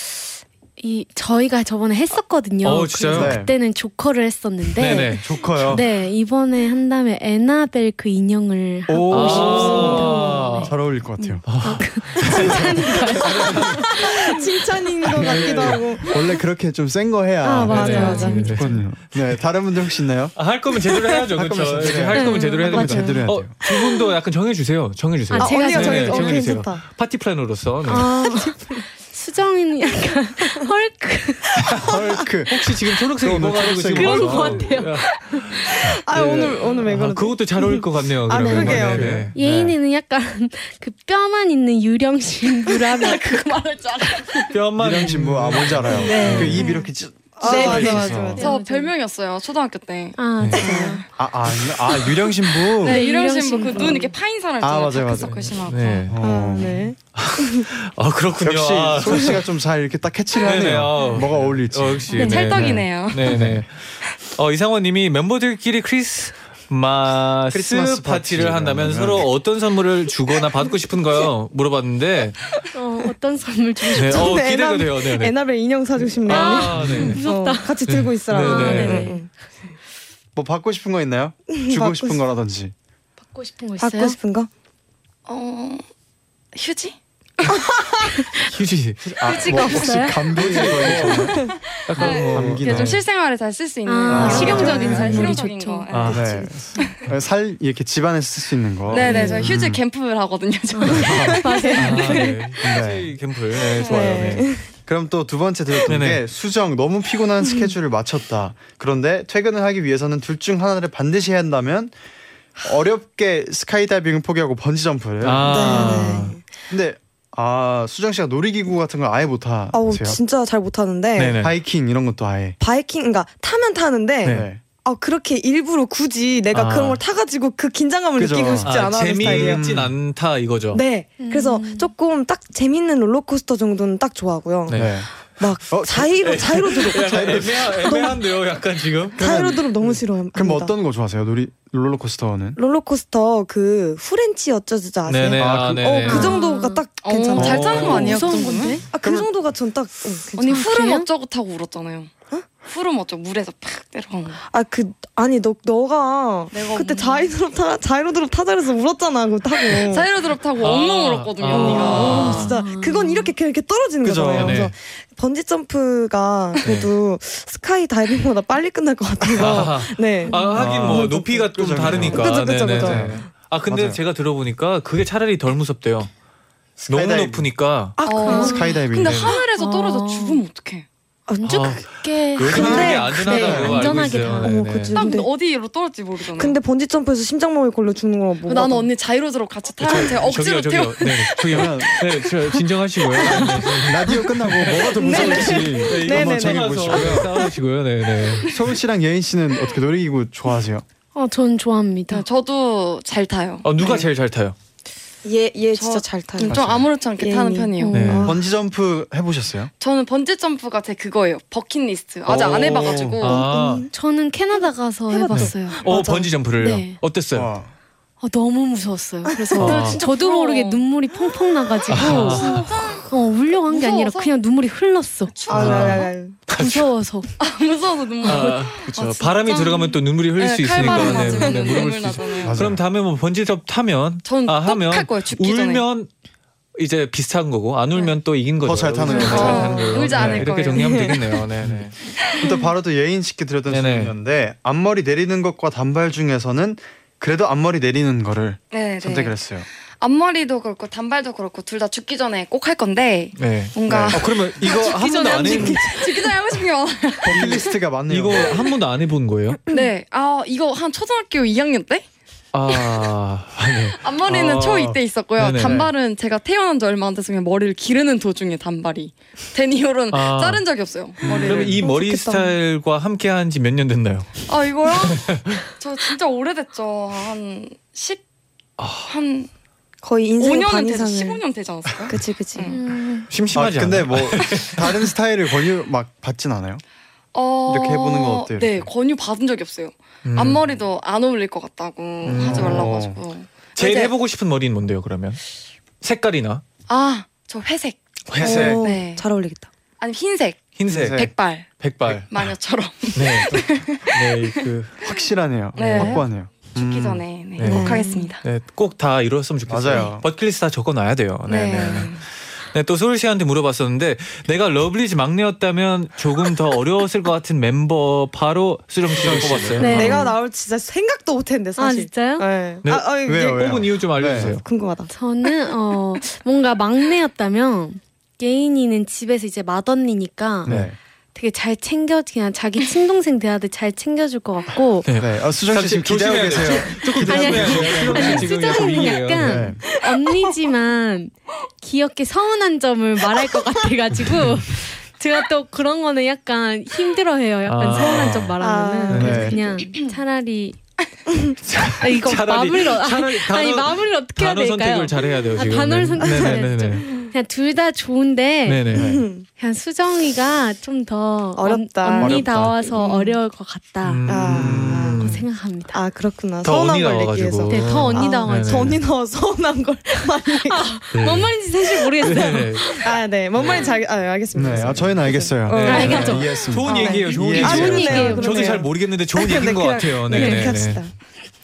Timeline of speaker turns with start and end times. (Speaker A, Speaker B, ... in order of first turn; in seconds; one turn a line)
Speaker A: 0.8-14.4
Speaker B: 2.6-3.4
Speaker C: 3.1-3.5
Speaker B: 4.8-5.8
Speaker C: 5.0-5.8
Speaker C: 8.9-11.5
Speaker B: 9.1-10.7
Speaker D: 9.5-10.4
Speaker B: 11.4-14.1
Speaker C: 12.2-13.4
Speaker D: 14.0-16.2
Speaker B: 15.1-15.8
Speaker C: 15.2-20.4
Speaker A: 17.4-18.7
Speaker B: 17.6-18.9
Speaker D: 17.8-18.4
Speaker B: 20.3-28.1
Speaker C: 21.3-23.5
Speaker A: 22.1-23.2
Speaker D: 22.7-23.1
Speaker A: 25.3-26.6
Speaker D: 25.4-26.8
Speaker A: 27.8-31.8
Speaker D: 27.9-28.8
Speaker C: 31.7-32.6
Speaker B: 32.5-39.7
Speaker C: 33.2-34.7
Speaker A: 33.9-35.5
Speaker D: 36.0-39.1
Speaker A: 38.4-43.5
Speaker C: 38.6-39.5
Speaker E: 42.7-44.5
Speaker B: 44.5-46.7
Speaker C: 44.8-48.4
Speaker A: 46.0-46.9
Speaker D: 46.1-46.5
Speaker D: 47.4-48.5
Speaker A: 47.4-48.9
Speaker E: 47.4-51.0
Speaker A: 50.1-51.0
Speaker B: 50.4-50.6
Speaker D: 50.5-51.0
Speaker C: 51.2-53.0
Speaker A: 52.8-54.1
Speaker E: 52.8-56.1
Speaker C: 54.6-55.5
Speaker B: 55.4-56.2
Speaker C: 56.1-56.8
Speaker D: 56.2-57.6
Speaker A: 56.6-56.9
Speaker B: 57.1-59.5
Speaker C: 58.4-62.7
Speaker B: 60.4-63.7
Speaker E: 62.1-63.4
Speaker C: 63.2-63.6
Speaker B: 64.3-72.4
Speaker C: 67.5-69.3
Speaker A: 72.7-74.4
Speaker D: 73.9-79.3
Speaker B: 73.9-75.3
Speaker B: 76.2-77.2
Speaker A: 76.2-79.3
Speaker C: 76.8-77.1
Speaker B: 77.9-79.1
Speaker C: 80.3-82.7
Speaker D: 81.5-82.2
Speaker A: 83.2-84.2
Speaker D: 83.8-84.5
Speaker E: 85.2-85.8
Speaker E: 86.5-87.0
Speaker B: 88.5-89.1
Speaker C: 89.0-93.0
Speaker A: 89.2-90.4
Speaker B: 90.2-93.0
Speaker E: 91.6-97.0
Speaker A: 93.8-96.2
Speaker C: 94.1-94.8
Speaker D: 94.2-95.3
Speaker B: 95.9-96.3
Speaker C: 96.1-99.8
Speaker D: 96.3-96.8
Speaker B: 98.9-99.5
Speaker E: 98.9-101.6
Speaker A: 99.1-99.5
Speaker A: 100.7-102.5
Speaker D: 100.9-102.3
Speaker C: 101.1-101.3
Speaker B: 101.8-104.5
Speaker C: 102.6-103.1
Speaker E: 103.7-104.2
Speaker D: 103.8-104.7
Speaker C: 104.8-111.9
Speaker B: 105.8-106.2
Speaker C: 112.6-116.0
Speaker B: 115.2-116.4
Speaker D: 115.5-116.4
Speaker C: 116.7-120.2
Speaker D: 119.7-121.4
Speaker B: 121.2-121.5
Speaker C: 121.4-122.6
Speaker D: 122.6-129.6
Speaker C: 124.2-124.6
Speaker B: 126.5-127.0
Speaker C: 128.2-129.9
Speaker B: 128.6-130.8
Speaker D: 130.7-134.8
Speaker A: 131.2-131.9
Speaker B: 134.7-135.0
Speaker C: 134.7-135.1
Speaker D: 135.4-138.2
Speaker C: 135.7-137.7
Speaker B: 136.2-139.4
Speaker C: 139.1-142.6
Speaker D: 139.2-140.7
Speaker D: 142.6-148.2
Speaker B: 145.1-146.4
Speaker C: 145.4-146.1
Speaker A: 146.0-146.8
Speaker E: 147.0-148.8
Speaker B: 147.3-148.3
Speaker C: 147.3-147.9
Speaker A: 147.7-148.8
Speaker D: 148.9-150.6
Speaker C: 149.0-149.3
Speaker E: 150.4-152.1
Speaker A: 150.5-151.1
Speaker E: 152.6-154.4
Speaker D: 154.5-160.1
Speaker E: 156.5-157.3
Speaker E: 159.7-162.4
Speaker B: 160.6-162.5
Speaker D: 161.5-173.2
Speaker A: 161.8-163.3
Speaker C: 164.0-164.7
Speaker B: 164.3-164.7
Speaker B: 166.6-166.9
Speaker C: 169.3-169.7
Speaker B: 169.3-176.1
Speaker A: 170.2-171.0
Speaker C: 170.5-174.0
Speaker C: 176.8-177.5
Speaker B: 176.9-178.0
Speaker D: 178.0-178.6
Speaker E: 178.0-180.8
Speaker A: 178.2-180.4
Speaker C: 178.3-179.3
Speaker B: 178.9-179.4
Speaker D: 181.3-181.7
Speaker A: 181.4-184.6
Speaker B: 181.4-184.9
Speaker C: 182.4-184.0
Speaker D: 182.5-183.8
Speaker D: 184.4-185.3
Speaker E: 184.9-186.6
Speaker D: 186.3-188.9
Speaker E: 188.4-192.5
Speaker B: 189.8-198.6
Speaker C: 191.5-192.0
Speaker E: 193.2-193.6
Speaker C: 193.2-197.3
Speaker D: 195.0-197.4
Speaker C: 198.4-200.8
Speaker A: 201.1-202.2
Speaker E: 202.1-204.0
Speaker B: 203.6-204.6
Speaker D: 205.2-206.6
Speaker E: 205.7-208.1
Speaker C: 206.5-206.8
Speaker D: 207.2-208.4
Speaker A: 207.8-208.3
Speaker B: 207.9-208.3
Speaker C: 208.2-209.7
Speaker E: 209.8-213.4
Speaker C: 212.3-213.2
Speaker B: 212.3-213.9
Speaker D: 213.2-213.9
Speaker A: 213.9-215.9
Speaker D: 214.5-216.3
Speaker B: 215.3-217.5
Speaker A: 216.6-217.0
Speaker C: 217.3-217.7
Speaker A: 218.2-227.3
Speaker D: 219.3-219.8
Speaker B: 219.6-220.0
Speaker E: 219.8-220.8
Speaker B: 221.9-222.6
Speaker E: 221.9-223.1
Speaker E: 223.7-224.3
Speaker E: 225.3-226.1
Speaker D: 225.5-226.4
Speaker B: 225.5-226.9
Speaker E: 227.4-232.6
Speaker B: 228.2-236.1
Speaker A: 228.3-228.7
Speaker C: 232.4-232.8
Speaker E: 234.2-235.8
Speaker B: 236.7-242.0
Speaker C: 238.6-240.6
Speaker D: 239.1-240.0
Speaker E: 239.1-241.1
Speaker D: 240.7-241.2
Speaker C: 241.6-249.7
Speaker B: 243.7-244.1
Speaker E: 248.7-249.3
Speaker E: 250.0-257.7
Speaker B: 253.3-256.0
Speaker C: 253.8-254.3
Speaker C: 257.2-258.6
Speaker B: 257.3-259.6
Speaker E: 259.7-262.1
Speaker B: 262.5-264.1
Speaker E: 262.7-263.0
Speaker E: 264.0-271.8
Speaker C: 264.3-265.0
Speaker B: 265.4-265.9
Speaker C: 265.6-265.9
Speaker B: 270.1-270.6
Speaker C: 271.2-271.8
Speaker B: 271.2-274.4
Speaker D: 271.8-272.5
Speaker E: 274.5-278.2
Speaker B: 275.1-275.6
Speaker B: 278.8-279.1
Speaker E: 279.0-279.5
Speaker D: 280.0-281.4
Speaker E: 280.4-282.8
Speaker D: 282.1-282.7
Speaker A: 282.7-283.3
Speaker B: 283.3-285.1
Speaker C: 283.5-286.8
Speaker E: 287.3-294.1
Speaker C: 287.6-288.9
Speaker B: 290.2-290.6
Speaker B: 292.2-292.9
Speaker C: 292.4-293.2
Speaker B: 293.8-295.4
Speaker B: 296.0-296.6
Speaker E: 296.9-299.2
Speaker B: 298.3-298.8
Speaker D: 298.4-299.7
Speaker C: 298.4-298.8
Speaker E: 300.0-304.5
Speaker B: 300.8-302.5
Speaker C: 300.9-301.3
Speaker B: 303.1-304.9
Speaker C: 305.0-307.2
Speaker B: 305.7-306.2
Speaker E: 305.8-308.4
Speaker B: 307.6-320.3
Speaker D: 307.6-308.3
Speaker C: 309.7-310.2
Speaker E: 311.5-312.2
Speaker C: 319.1-320.2
Speaker A: 319.8-320.4
Speaker D: 319.9-325.1
Speaker A: 321.8-322.5
Speaker B: 322.8-324.6
Speaker C: 323.2-324.5
Speaker A: 325.1-330.8
Speaker C: 330.6-330.9
Speaker A: 331.3-335.1
Speaker B: 335.1-339.8
Speaker C: 335.2-338.6
Speaker A: 336.9-350.8
Speaker C: 339.4-339.8
Speaker B: 347.6-348.6
Speaker D: 348.6-349.6
Speaker B: 349.1-349.6
Speaker C: 349.1-349.6
Speaker B: 351.6-357.2
Speaker A: 351.9-366.0
Speaker B: 358.6-359.2
Speaker C: 358.9-359.2
Speaker D: 358.9-359.4
Speaker D: 361.6-363.4
Speaker C: 362.2-362.8
Speaker B: 364.0-365.5
Speaker D: 364.2-365.2
Speaker C: 364.5-365.1
Speaker D: 365.9-370.9
Speaker B: 366.6-369.0
Speaker A: 367.7-369.0
Speaker A: 370.6-373.2
Speaker B: 371.1-371.5
Speaker B: 372.2-373.0
Speaker D: 372.8-381.1
Speaker B: 373.5-373.9
Speaker C: 374.5-378.2
Speaker B: 374.6-375.1
Speaker B: 375.7-381.1
Speaker A: 375.8-378.9
Speaker A: 380.3-380.8